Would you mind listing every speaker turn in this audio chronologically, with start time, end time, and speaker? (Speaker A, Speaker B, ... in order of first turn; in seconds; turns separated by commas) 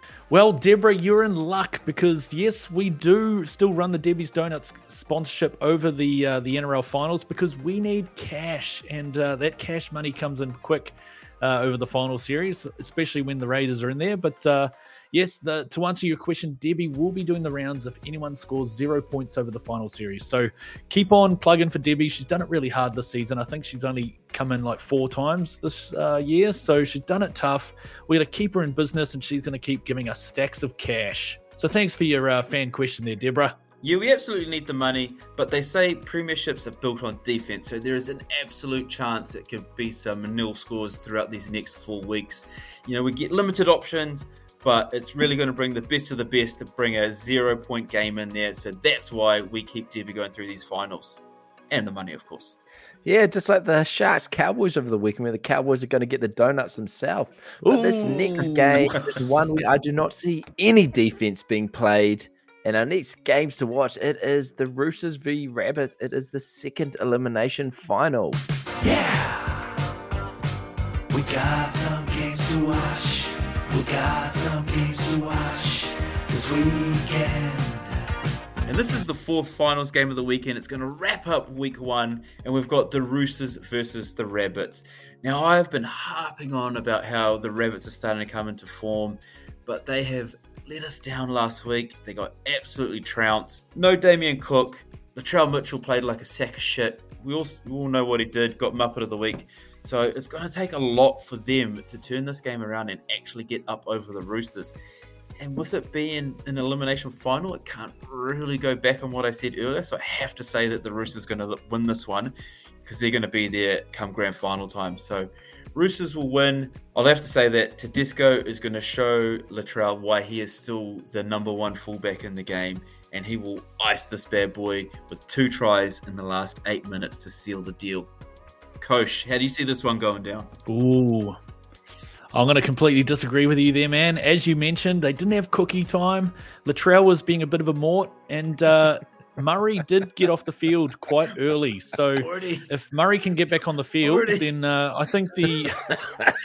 Speaker A: 0.3-33.6, Speaker B: 33.8-52.6, Speaker C: 53.0-68.4, Speaker A: 57.6-58.9, Speaker D: 68.8-69.7, Speaker D: 71.1-78.0, Speaker B: 78.7-104.7, Speaker B: 105.4-112.3, Speaker B: 112.8-128.1, Speaker B: 128.8-130.5, Speaker A: 130.7-131.4, Speaker A: 132.3-146.0, Speaker B: 142.2-142.7, Speaker B: 144.0-144.5